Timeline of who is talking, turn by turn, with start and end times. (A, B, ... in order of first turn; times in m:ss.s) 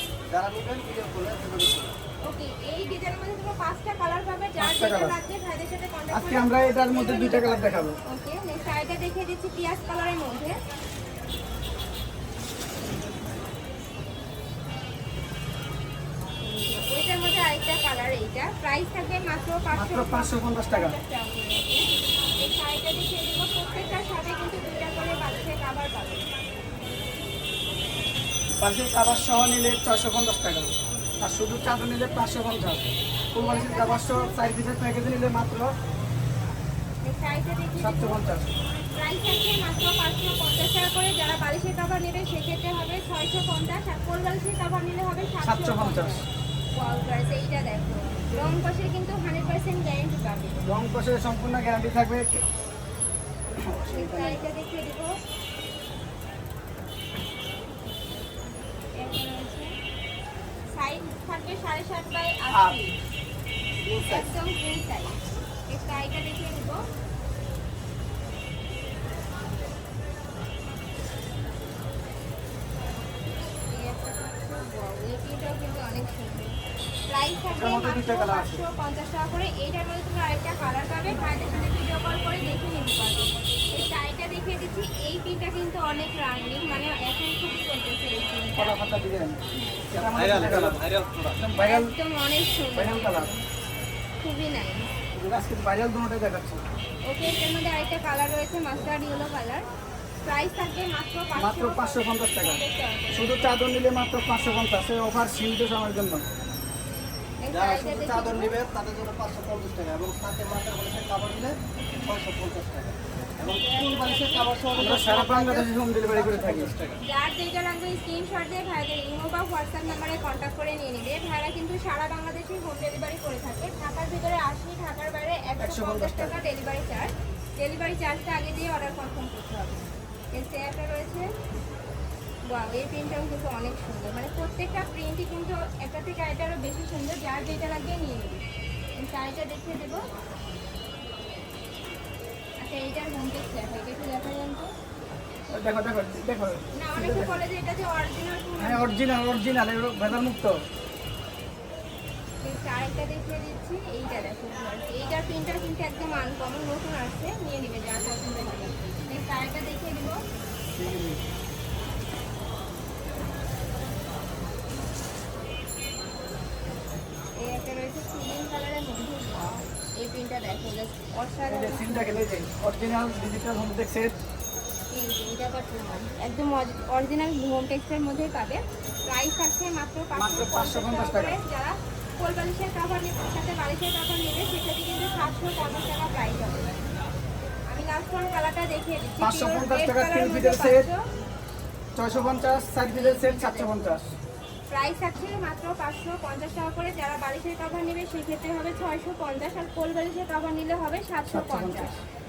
0:00.3-0:01.9 A
0:02.2-0:10.6 B
0:04.6-0:05.2 C
0:06.1-0:08.0 C
0:16.4-0:21.9 B
0:19.7-0:21.0 C
0:22.4-0:26.2 B
0:28.6-0:30.7 C
0:31.2-0:35.7 C
0:33.4-0:34.4 B
0:37.0-0:38.3 B
0:37.8-0:38.5 C
0:38.9-0:50.6 B
0:45.4-0:46.2 C
0:50.6-0:52.4 C
0:53.6-0:54.4 C
0:53.9-0:55.1 B
0:58.9-0:59.7 B
1:00.7-1:03.0 B
1:02.5-1:02.8 C
1:03.8-1:04.3 A
1:04.0-1:06.8 B
1:13.6-1:28.8 B
1:17.5-1:18.6 C
1:28.6-1:29.4 C
1:29.5-1:29.8 B
1:29.9-1:30.8 C
1:29.9-1:31.4 A
1:31.4-1:31.9 C
1:31.6-1:33.4 B
1:32.7-1:33.3 C
1:34.2-1:34.9 B
1:35.1-1:36.6 C
1:37.0-1:39.6 B
1:40.2-1:43.6 B
1:41.3-1:42.6 C
1:43.1-1:46.2 C
1:47.4-1:48.5 B
1:47.5-1:57.0 A
1:53.4-1:54.8 B
1:54.7-1:56.7 C
1:57.0-2:11.3 B
2:05.6-2:06.4 C
2:12.5-2:18.4 B
2:19.0-2:20.0 B
2:22.6-2:24.7 B
2:25.5-2:27.4 C
2:26.7-2:28.9 B
2:28.6-2:30.6 C
2:32.4-2:40.2 B
2:40.7-2:41.2 C
2:47.4-2:52.2 B
2:51.5-2:54.2 C
2:54.9-3:06.8 B
3:00.1-3:01.4 C
3:07.7-3:11.0 B
3:09.2-3:10.9 C
3:12.0-3:14.1 C
3:12.8-3:13.9 B
3:14.7-3:22.0 B
3:21.2-3:22.0 C